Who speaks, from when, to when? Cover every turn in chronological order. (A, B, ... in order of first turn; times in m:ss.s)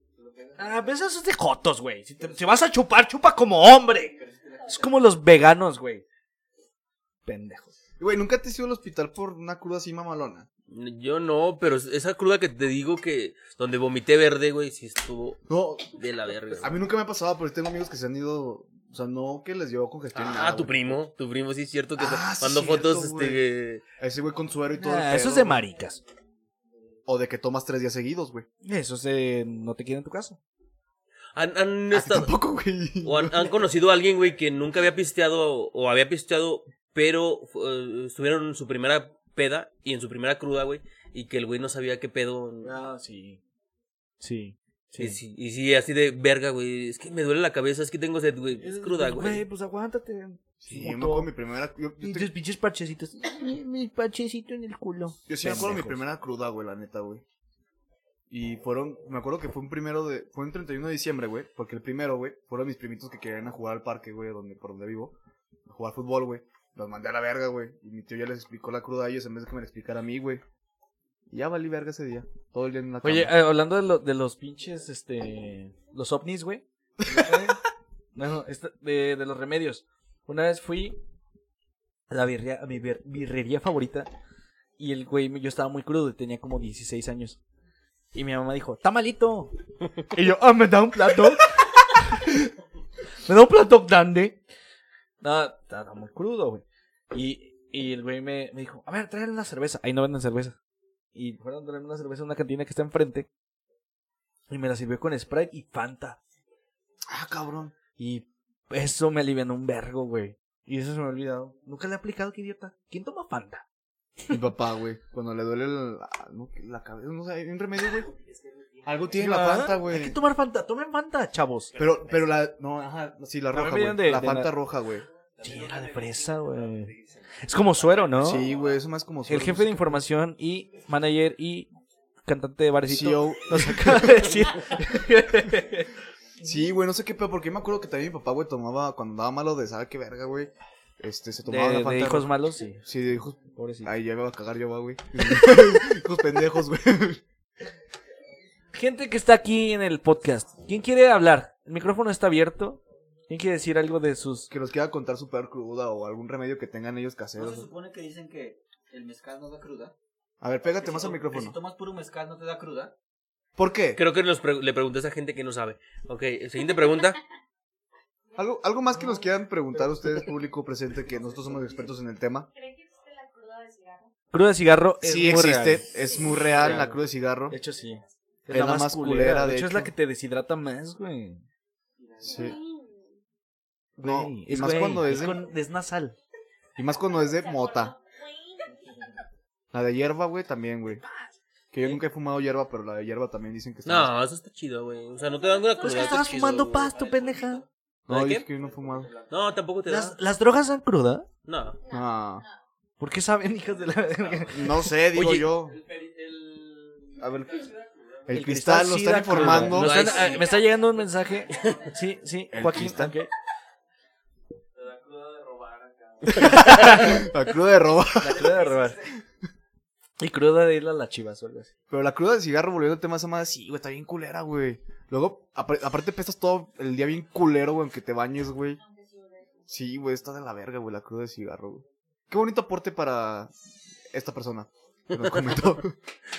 0:00.2-0:00.7 A
0:00.6-0:06.0 B
0:04.2-0:04.7 A
0:07.2-0:07.7 B
0:08.0-0:10.5 C
0:10.7-0:15.4 D
0:15.5-0:15.9 C
0:15.9-0:16.7 D
0:16.6-0:21.0 C
0:20.1-0:23.8 D
0:22.0-0:23.4 C
0:24.0-0:25.6 C
0:24.8-0:26.0 B
0:27.1-0:28.4 C
0:28.6-0:30.4 B
0:31.3-0:32.3 D
0:31.9-0:33.5 C
0:33.0-0:42.8 D
0:42.6-0:43.4 B
0:44.2-0:45.2 B
0:45.0-0:49.4 D
0:48.6-0:51.3 B
0:50.6-0:52.3 C
0:52.0-0:56.0 B
0:55.3-0:57.2 C
0:58.3-1:05.1 C
1:05.7-1:10.4 C
1:11.3-1:13.3 C
1:13.0-1:17.6 B
1:18.1-1:21.0 B
1:22.1-1:24.1 B
1:24.8-1:27.4 B
1:28.1-1:29.5 B
1:30.1-1:32.5 B
1:33.2-1:34.4 B
1:35.2-1:40.6 B
1:41.1-1:43.3 B
1:44.5-1:46.2 B
1:47.1-1:47.8 C
1:48.0-1:53.6 B
1:54.3-1:58.1 C
1:58.8-2:00.2 C
1:59.1-2:01.8 B
2:01.7-2:05.0 C
2:03.5-2:04.5 B
2:05.4-2:08.5 B
2:08.2-2:10.0 C
2:08.4-2:08.7 A
2:09.2-2:11.7 B
2:12.2-2:15.9 B
2:12.9-2:14.3 C
2:16.4-2:22.3 C
2:21.4-2:22.9 B
2:22.8-2:27.2 C
2:23.4-2:23.9 B
2:28.7-2:34.5 B
2:34.5-2:37.7 C
2:37.4-2:39.9 A
2:40.4-2:41.6 C
2:40.6-2:42.9 A
2:43.6-2:44.0 C
2:44.0-2:47.2 D
2:48.4-2:52.5 C
2:52.5-2:54.1 E
2:54.3-2:55.9 B
2:55.0-2:57.6 C
2:55.9-2:56.4 E
2:56.6-3:01.4 B
2:58.5-2:59.9 C
3:02.0-3:02.6 A
3:02.2-3:02.6 C
3:02.2-3:03.1 E
3:04.0-3:05.4 C
3:04.0-3:06.2 B
3:06.8-3:07.9 C
3:07.1-3:08.8 E
3:09.7-3:11.0 C
3:11.7-3:14.1 C
3:13.8-3:16.9 D
3:15.3-3:16.7 E
3:15.8-3:17.6 B
3:16.8-3:17.6 A
3:18.1-3:19.1 C
3:18.1-3:18.5 D
3:18.6-3:19.3 A
3:19.3-3:20.2 D
3:19.8-3:21.3 B
3:21.4-3:21.8 D
3:21.8-3:22.5 E
3:21.9-3:22.4 C
3:23.0-3:24.9 B
3:24.5-3:25.8 C
3:25.1-3:25.5 D
3:27.2-3:27.7 C
3:28.3-3:30.0 C
3:28.3-3:33.3 B
3:29.3-3:30.6 D
3:30.1-3:30.6 E
3:32.5-3:33.2 C
3:36.2-3:38.6 C
3:36.4-3:37.2 B
3:38.2-3:39.0 B
3:40.2-3:41.7 B
3:41.9-3:48.8 C
3:48.7-3:49.7 E
3:49.7-3:53.5 C
3:54.1-3:56.0 C
3:55.1-3:55.7 D